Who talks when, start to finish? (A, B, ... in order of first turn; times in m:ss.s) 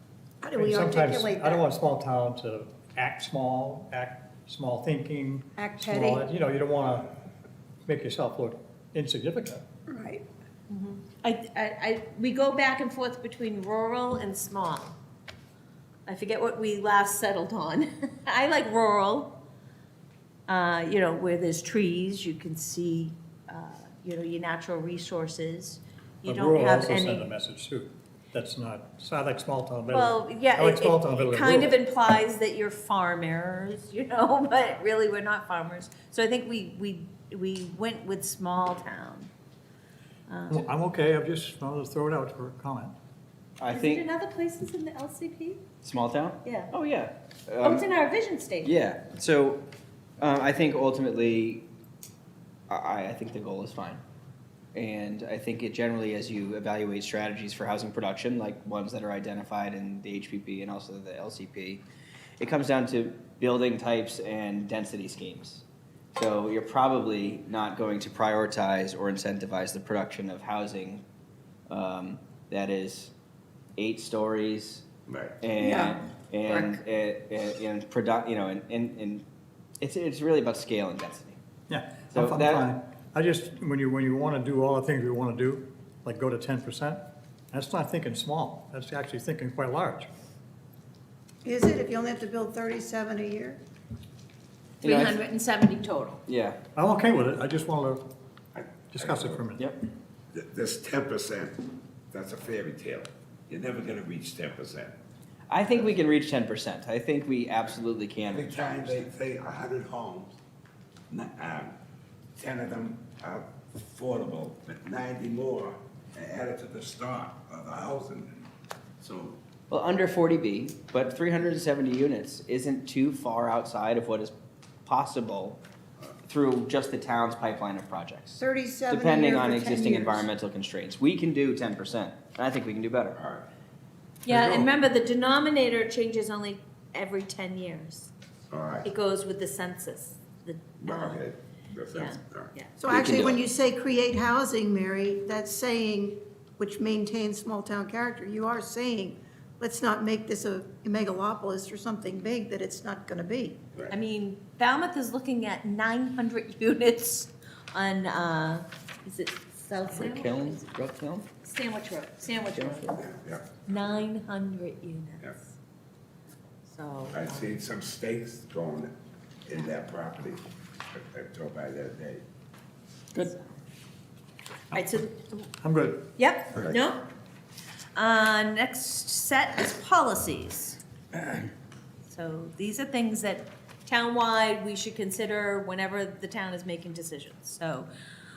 0:00.4-0:01.6 A
0:00.6-0:07.1 B
0:05.6-0:06.2 A
0:07.8-0:09.6 B
0:09.9-0:10.2 A
0:10.7-0:15.0 C
0:16.0-0:19.3 C
0:20.5-0:27.3 C
0:26.2-0:31.7 B
0:29.9-0:39.3 C
0:40.3-0:40.7 C
0:40.5-0:42.9 B
0:43.6-0:44.0 D
0:43.7-0:45.6 C
0:45.8-0:47.8 D
0:46.4-0:46.7 C
0:47.6-0:48.7 C
0:48.6-0:49.6 D
0:50.2-0:51.6 D
0:52.7-0:54.0 D
0:54.7-1:01.8 D
1:02.4-1:05.6 D
1:06.1-1:11.0 D
1:11.7-1:13.1 D
1:13.8-1:14.9 D
1:15.1-1:15.4 E
1:15.4-1:19.2 D
1:15.6-1:16.0 A
1:19.8-1:21.4 D
1:21.7-1:27.0 B
1:22.1-1:22.7 D
1:27.5-1:30.1 B
1:31.4-1:33.6 A
1:34.8-1:36.2 C
1:34.8-1:35.2 D
1:36.2-1:36.6 D
1:36.8-1:38.0 B
1:38.5-1:39.4 E
1:38.9-1:39.6 B
1:39.6-1:39.8 D
1:40.3-1:45.0 E
1:45.5-1:49.1 D
1:48.2-1:50.4 E
1:51.1-1:51.7 E
1:52.4-1:58.5 E
1:59.0-1:59.4 E
1:59.7-2:04.3 D
2:04.8-2:05.6 D
2:06.2-2:13.2 D
2:08.4-2:10.3 A
2:13.2-2:13.4 E
2:14.2-2:18.1 C
2:18.5-2:18.9 E
2:18.8-2:21.2 C
2:20.8-2:22.5 E
2:21.9-2:22.8 C
2:22.8-2:33.6 A
2:22.9-2:23.4 D
2:33.9-2:40.6 C
2:39.9-2:41.3 D
2:41.4-2:43.0 C
2:42.5-2:43.0 D
2:42.9-2:43.4 E
2:43.6-2:45.5 C
2:46.7-2:47.6 C
2:47.1-2:48.9 E
2:49.4-2:52.2 E
2:53.1-2:53.5 C
2:54.7-2:55.0 B
2:54.7-2:55.4 C
2:55.6-2:56.1 B
2:56.2-2:57.0 C
2:57.9-3:00.8 C
3:02.0-3:07.9 C